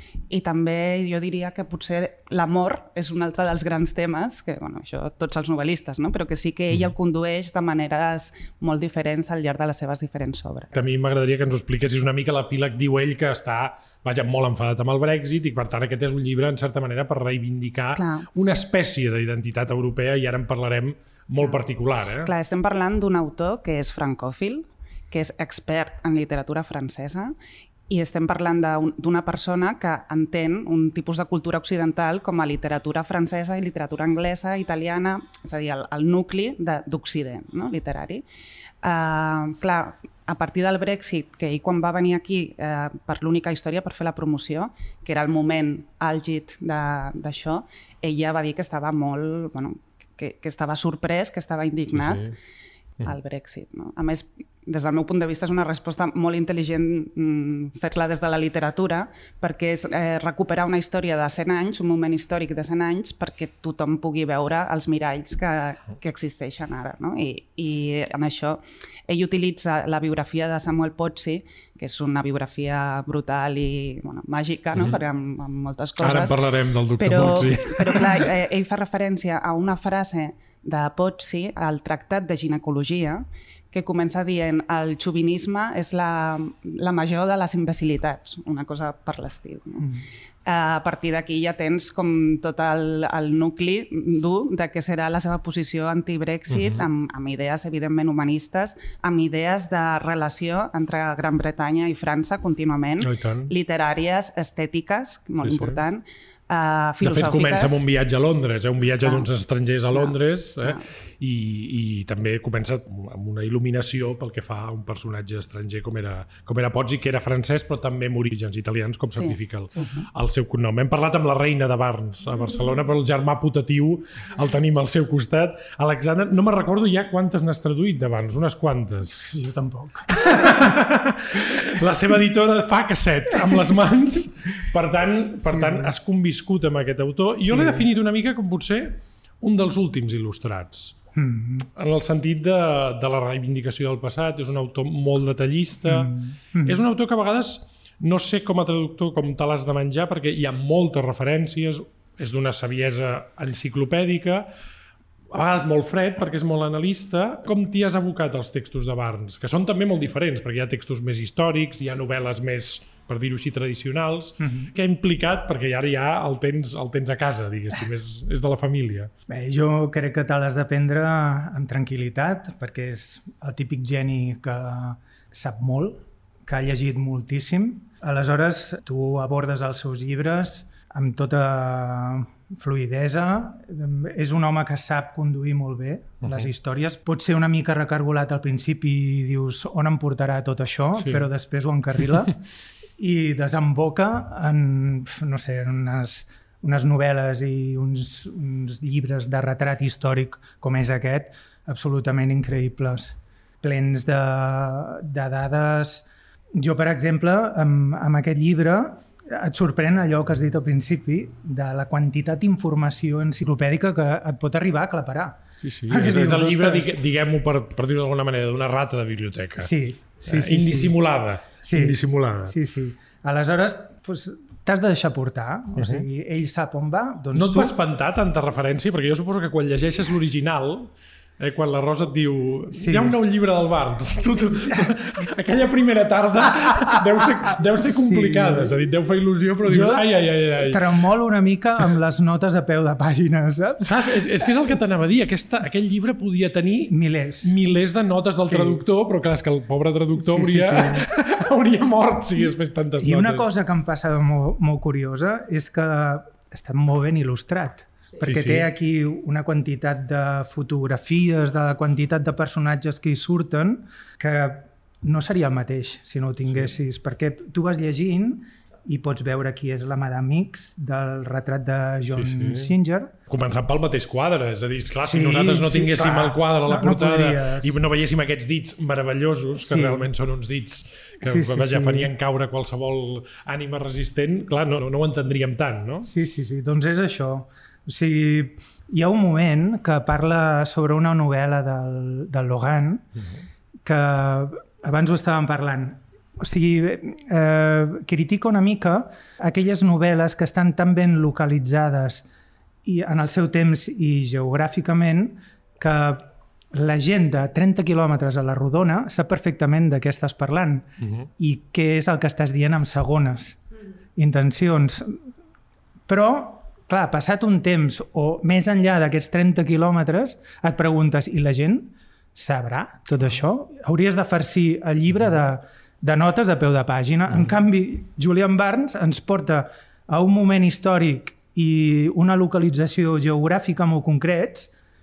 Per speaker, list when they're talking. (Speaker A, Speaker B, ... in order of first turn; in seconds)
Speaker A: 0.3-10.7, 17.9-18.2, 22.2-27.3, 27.9-38.2, 38.8-52.3, 53.0-76.4, 77.0-89.8, 90.4-107.8, 109.9-110.8, 119.2-120.1
Speaker B: 10.7-22.3, 51.9-52.3, 76.0-78.3, 96.5-96.9, 103.0-103.5, 105.4-105.8, 107.0-129.3, 130.1-141.0, 141.8-146.1, 146.6-154.5, 155.3-169.1, 186.2-186.5, 191.0-191.2, 215.6-222.5, 225.8-226.1, 227.3-240.8, 243.8-253.5, 258.2-258.7, 266.4-266.7, 272.1-272.7, 273.3-286.1, 311.0-311.3
Speaker C: 129.1-130.7, 133.4-133.7, 135.4-135.9, 137.4-137.9, 141.2-141.7, 145.8-146.8, 164.4-164.7, 169.3-192.4, 193.0-206.1, 206.6-216.9, 219.6-221.0, 221.6-227.8, 232.7-233.2, 236.7-237.0, 237.8-238.8, 239.6-244.0, 246.9-247.5, 248.4-248.8, 250.2-251.1, 252.4-273.1, 275.0-277.8, 279.6-280.1, 281.2-282.1, 286.0-293.1, 293.8-302.2, 302.8-313.6, 314.1-315.2, 316.1-334.7